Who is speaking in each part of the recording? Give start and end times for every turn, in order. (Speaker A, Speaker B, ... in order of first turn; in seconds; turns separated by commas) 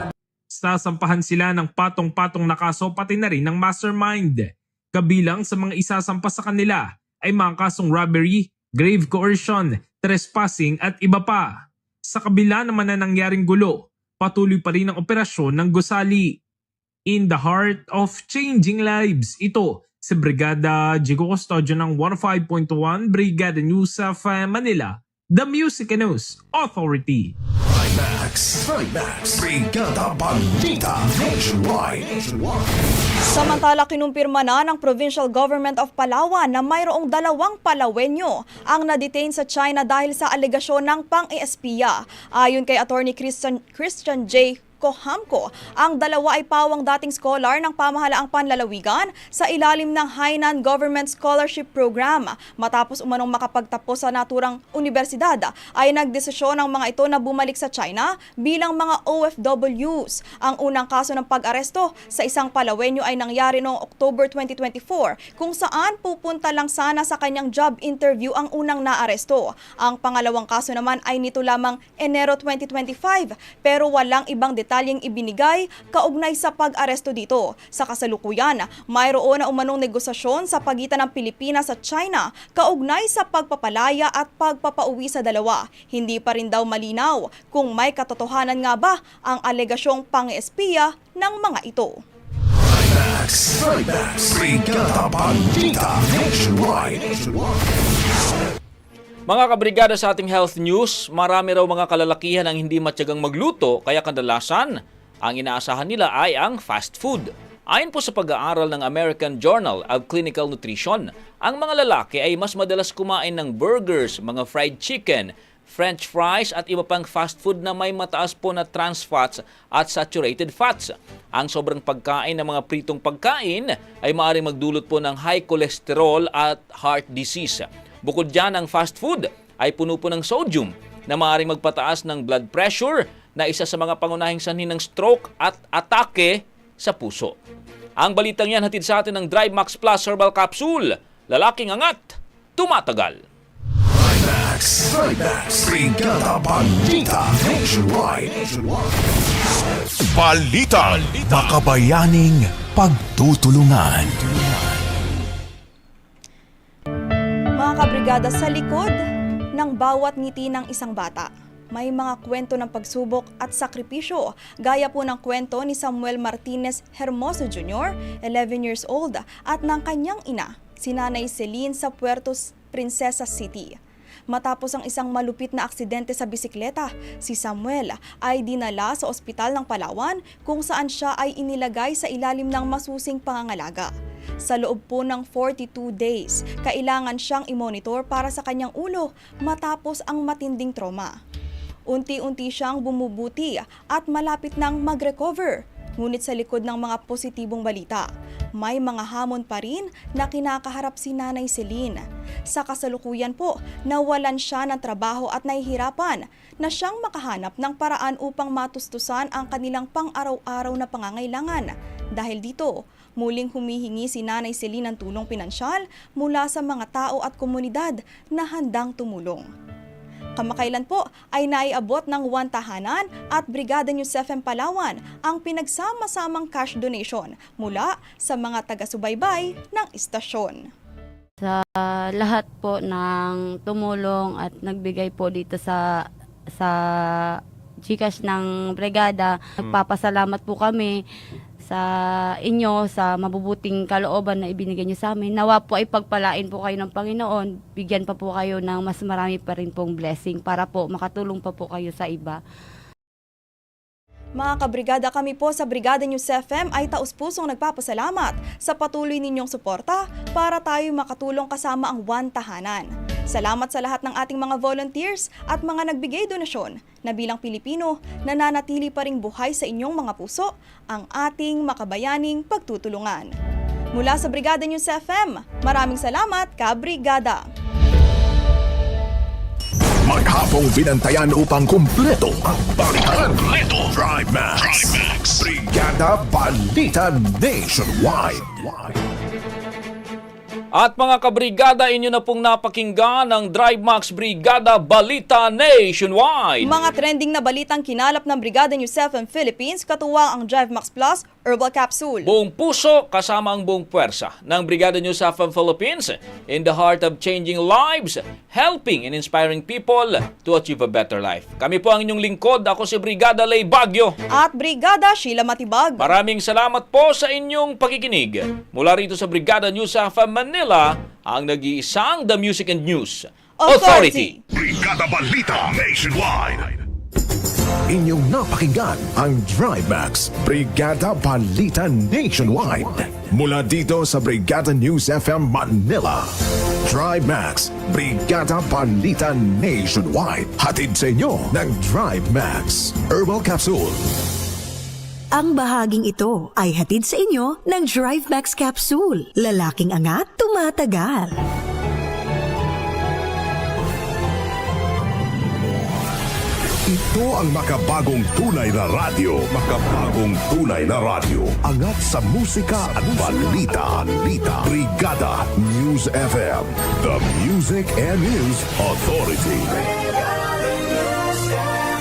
Speaker A: 0.6-11.5, Speaker A: 12.1-16.4, Speaker A: 17.1-27.3, Speaker B: 27.7-32.6, Speaker C: 33.2-92.0, Speaker B: 92.6-97.5, Speaker D: 99.3-137.3, Speaker D: 138.0-143.2, Speaker B: 143.9-148.8, Speaker B: 150.1-154.5, Speaker C: 157.6-159.0, Speaker C: 159.6-173.8, Speaker C: 174.3-183.9, Speaker C: 184.4-191.1, Speaker C: 191.9-198.1, Speaker C: 198.6-219.5, Speaker C: 220.4-230.7, Speaker E: 231.4-235.8, Speaker E: 237.9-241.0, Speaker E: 242.5-252.4, Speaker C: 254.4-273.3, Speaker C: 273.9-277.4, Speaker B: 280.0-289.0, Speaker D: 290.8-296.7, Speaker C: 296.6-302.3, Speaker D: 302.2-314.1, Speaker C: 314.3-316.1, Speaker D: 316.0-324.3, Speaker C: 323.6-324.4, Speaker B: 324.5-326.8, Speaker B: 327.9-336.3, Speaker B: 336.8-344.1, Speaker F: 345.3-351.3, Speaker B: 356.8-369.9